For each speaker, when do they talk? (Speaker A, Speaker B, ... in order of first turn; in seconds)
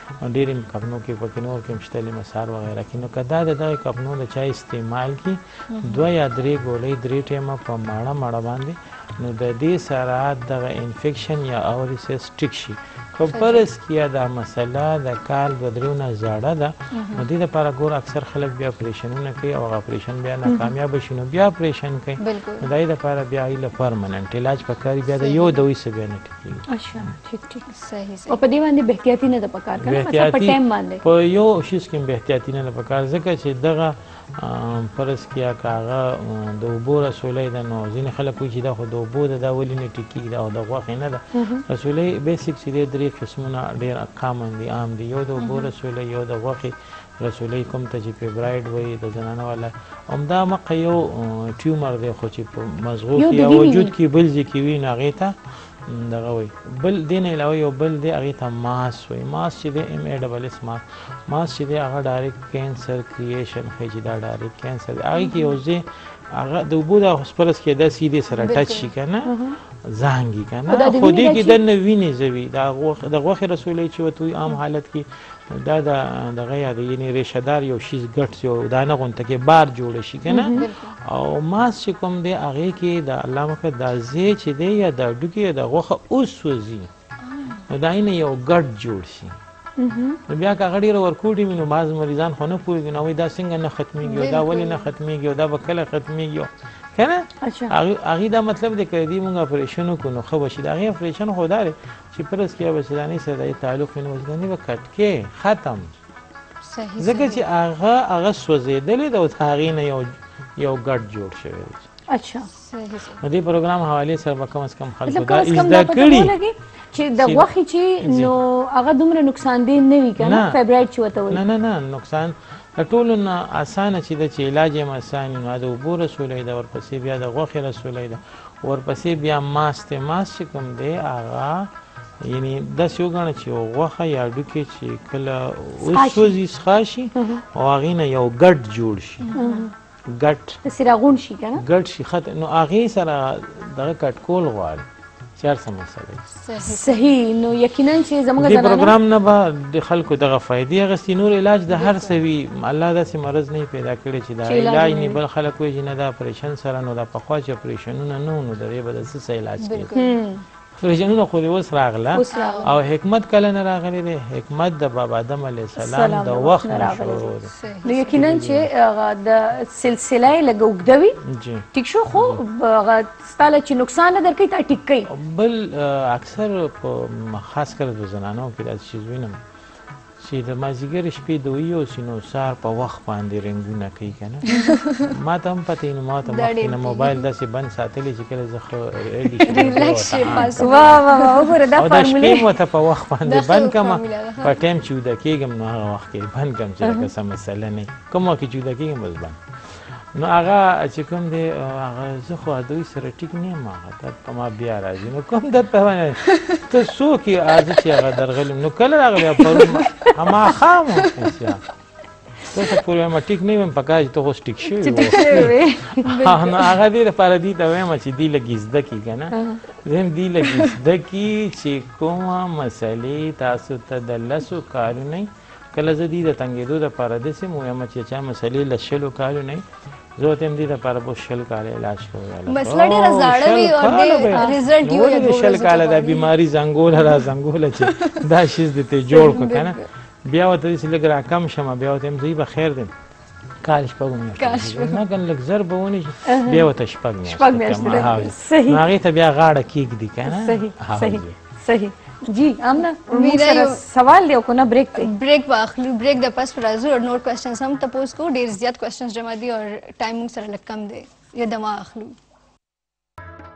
Speaker A: 0.2-26.6, 29.8-86.9, 87.7-89.3, 90.3-105.9, 107.0-111.8, 113.2-116.3, 117.2-117.5, 118.0-118.3, 120.2-120.6, 121.3-131.7, 132.2-139.4, 140.1-140.6, 141.6-144.8, 145.4-146.2, 148.4-159.9, 160.7-167.5, 168.1-168.7, 171.3-172.4, 175.1-179.4, 180.2-191.1, 191.7-211.6, 212.4-229.6, 230.2-242.9, 243.6-251.3
Speaker B: 5.7-6.0, 13.3-13.7, 16.9-17.2, 22.2-22.7, 25.1-25.6, 27.7-28.4, 45.4-45.7, 68.4-68.9, 80.5-80.9, 87.2-87.6, 94.0-94.9, 106.6-107.4, 112.5-113.2, 139.2-139.7, 146.3-147.1, 151.7-152.2, 159.6-160.2, 162.3-162.7, 167.5-168.2, 184.4-185.1, 186.2-187.2, 189.4-191.6, 193.2-194.6, 206.2-206.6, 209.3-210.1, 210.9-211.3, 215.1-216.7, 232.5-236.3, 237.8-238.2, 239.1-239.9, 244.4-245.0, 247.8-248.2, 253.1-253.8, 255.0-262.1
Speaker C: 20.4-20.7, 26.7-27.6, 28.3-31.0, 41.3-41.6, 53.1-53.9, 69.2-69.5, 70.7-71.6, 80.3-80.7, 89.8-90.2, 97.4-97.7, 112.1-112.5, 115.0-121.4, 135.8-136.3, 137.2-137.4, 139.3-139.7, 140.6-141.6, 146.6-148.9, 154.4-155.2, 159.9-160.4, 162.1-162.7, 165.8-171.2, 171.7-175.1, 184.5-184.7, 190.2-192.5, 214.6-216.2, 219.3-219.6, 234.3-234.6, 246.2-246.7, 247.2-248.8, 250.3-255.1